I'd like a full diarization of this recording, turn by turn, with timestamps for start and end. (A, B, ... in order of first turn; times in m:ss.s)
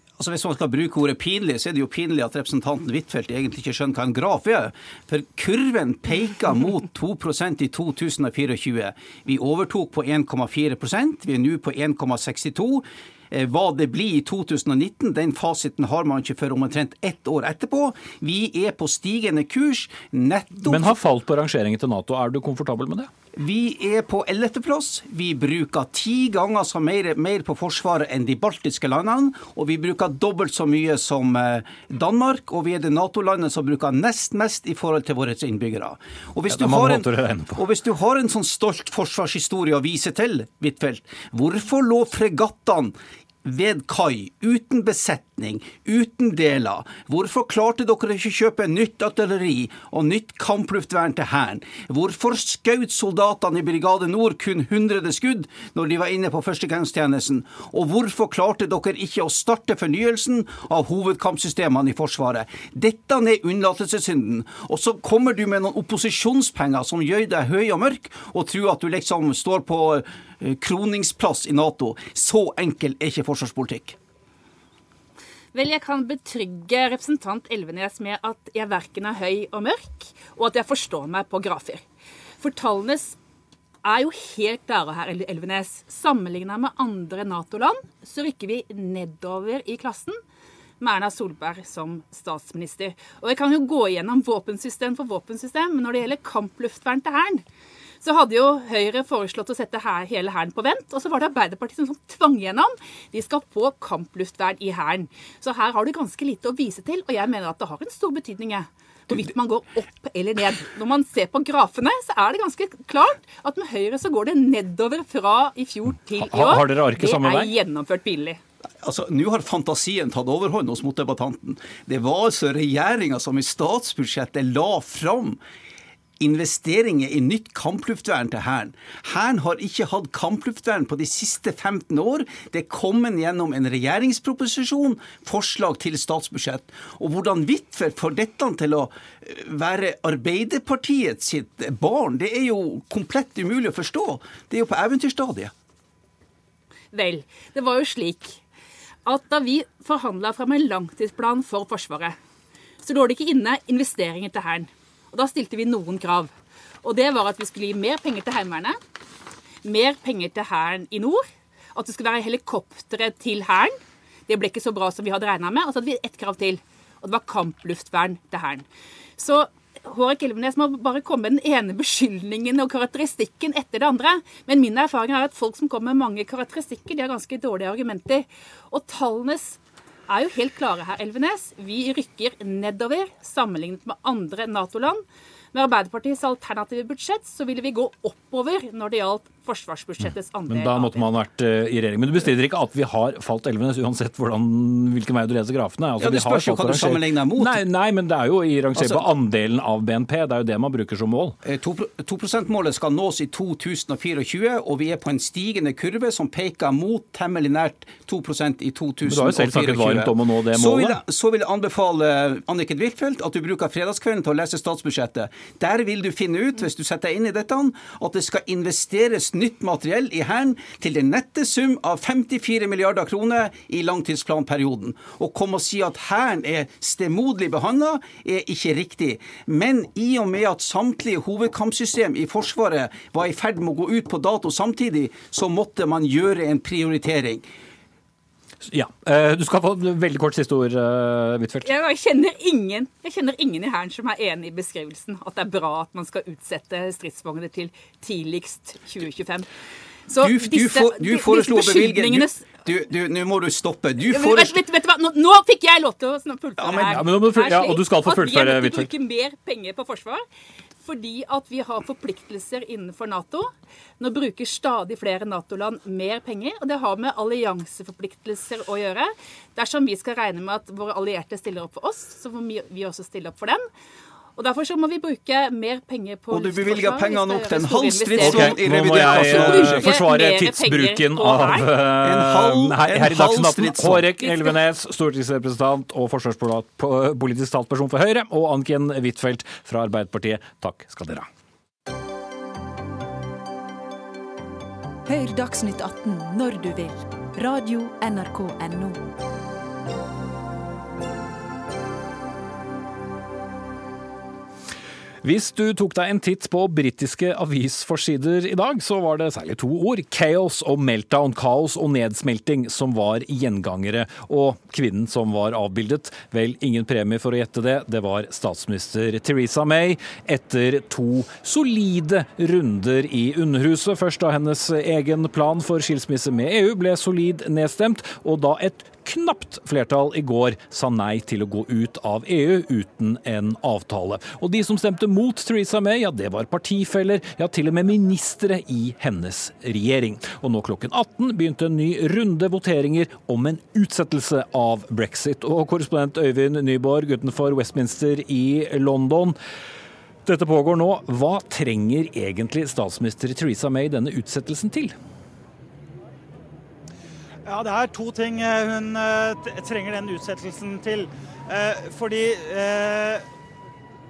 0:00.2-0:21.0 A
0:20.6-0:23.1 B
0:23.4-1:14.0 A
0:36.5-0:37.6 B
1:15.5-1:21.8 C
1:22.4-1:23.2 C
1:23.8-1:30.2 C
1:30.8-1:37.4 C
1:38.0-1:58.4 C
1:56.2-1:57.5 B
1:58.8-2:05.4 A
2:06.2-2:25.5 A
2:26.9-2:28.4 C
2:29.1-2:32.2 C
2:32.8-2:36.3 C
2:36.8-2:38.8 C
2:39.6-2:41.2 C
2:41.8-2:43.8 C
2:44.3-2:48.6 C
2:49.2-3:11.0 C
3:10.5-3:21.4 B
3:16.0-3:17.6 A
3:18.8-3:19.1 A
3:21.4-3:57.5 A
3:29.1-3:31.0 B
3:58.7-4:01.7 B
4:01.6-4:09.5 C
4:10.1-4:12.5 C
4:10.2-4:14.6 A
4:14.0-4:20.2 C
4:16.6-4:17.0 A
4:16.8-4:18.9 B
4:20.8-4:33.6 C
4:34.4-4:41.8 C
4:36.3-4:39.9 A
4:38.2-4:51.3 B
4:41.5-4:44.1 A
4:55.1-4:59.0 D
5:05.2-5:49.4 B
5:50.3-5:54.9 B
5:57.5-6:03.2 E